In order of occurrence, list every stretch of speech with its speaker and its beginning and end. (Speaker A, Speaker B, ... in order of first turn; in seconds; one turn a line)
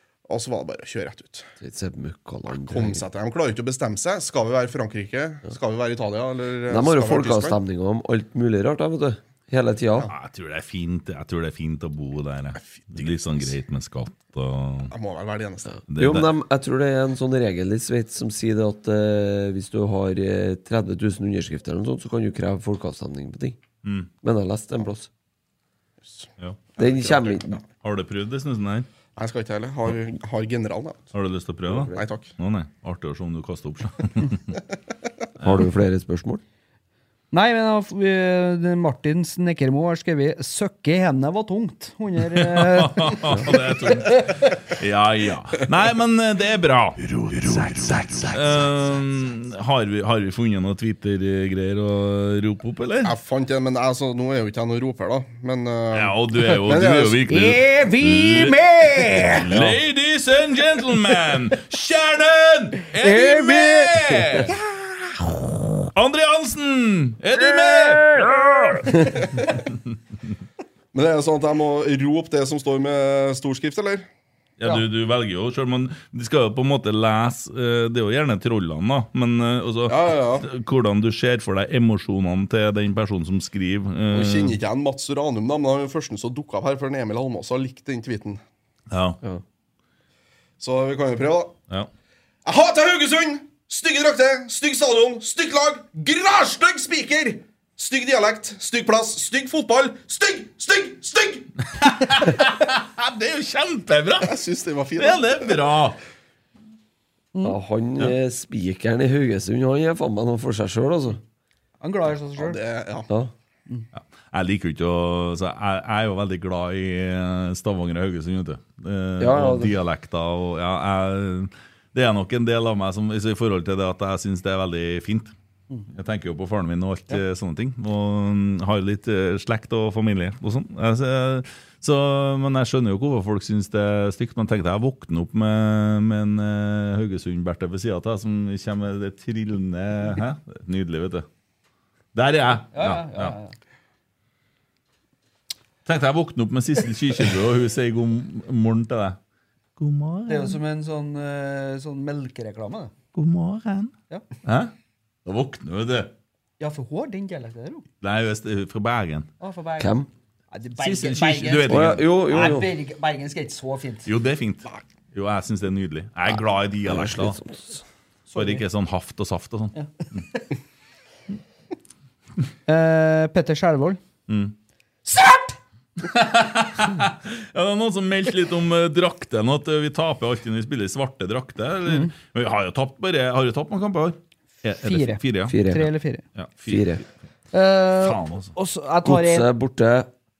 Speaker A: 0.3-1.5
Speaker B: 1.6-3.0
Speaker A: 2.5-7.6
Speaker B: 6.7-10.1
Speaker C: 10.1-14.9
Speaker A: 12.6-13.5
Speaker A: 14.9-15.8
Speaker B: 15.9-23.6
Speaker C: 15.9-16.2
Speaker C: 23.8-24.1
Speaker B: 24.2-25.1
Speaker A: 26.0-27.6
Speaker B: 26.8-27.6
Speaker C: 27.8-28.9
Speaker A: 29.2-31.1
Speaker C: 31.1-34.6
Speaker B: 31.6-32.0
Speaker A: 31.9-32.3
Speaker B: 35.4-36.4
Speaker D: 37.3-44.5
Speaker C: 42.3-53.1
Speaker A: 53.0-57.2
Speaker C: 55.9-64.5
Speaker D: 57.3-59.5
Speaker D: 63.0-64.5
Speaker C: 65.8-69.1
Speaker A: 70.9-74.0
Speaker C: 74.6-84.6
Speaker A: 79.9-80.5
Speaker A: 84.1-88.4
Speaker C: 88.9-89.2
Speaker A: 90.6-91.5
Speaker A: 92.4-101.5
Speaker C: 101.7-104.3
Speaker A: 104.2-105.5
Speaker C: 105.0-106.0
Speaker B: 107.4-111.2
Speaker D: 111.8-112.6
Speaker A: 112.4-113.1
Speaker C: 113.9-125.3
Speaker B: 119.2-119.8
Speaker C: 125.9-141.2
Speaker C: 142.1-143.3
Speaker D: 142.7-143.6
Speaker C: 145.8-149.2
Speaker C: 149.8-150.6
Speaker D: 150.3-152.9
Speaker C: 153.1-153.9
Speaker C: 154.4-154.7
Speaker C: 155.2-156.1
Speaker D: 156.6-157.8
Speaker C: 158.0-159.3
Speaker D: 159.4-159.9
Speaker B: 159.8-160.1
Speaker D: 160.5-164.1
Speaker C: 160.8-162.1
Speaker B: 161.7-162.7
Speaker C: 164.1-167.4
Speaker B: 166.3-167.8
Speaker D: 168.3-168.6
Speaker C: 168.3-170.2
Speaker D: 169.7-170.4
Speaker D: 172.7-174.0
Speaker C: 174.3-174.5
Speaker D: 175.1-175.6
Speaker C: 176.0-185.7
Speaker D: 184.8-186.2
Speaker B: 185.4-185.9
Speaker C: 186.3-187.1
Speaker B: 186.7-187.0
Speaker D: 187.5-189.5
Speaker C: 188.0-188.5
Speaker B: 189.0-190.1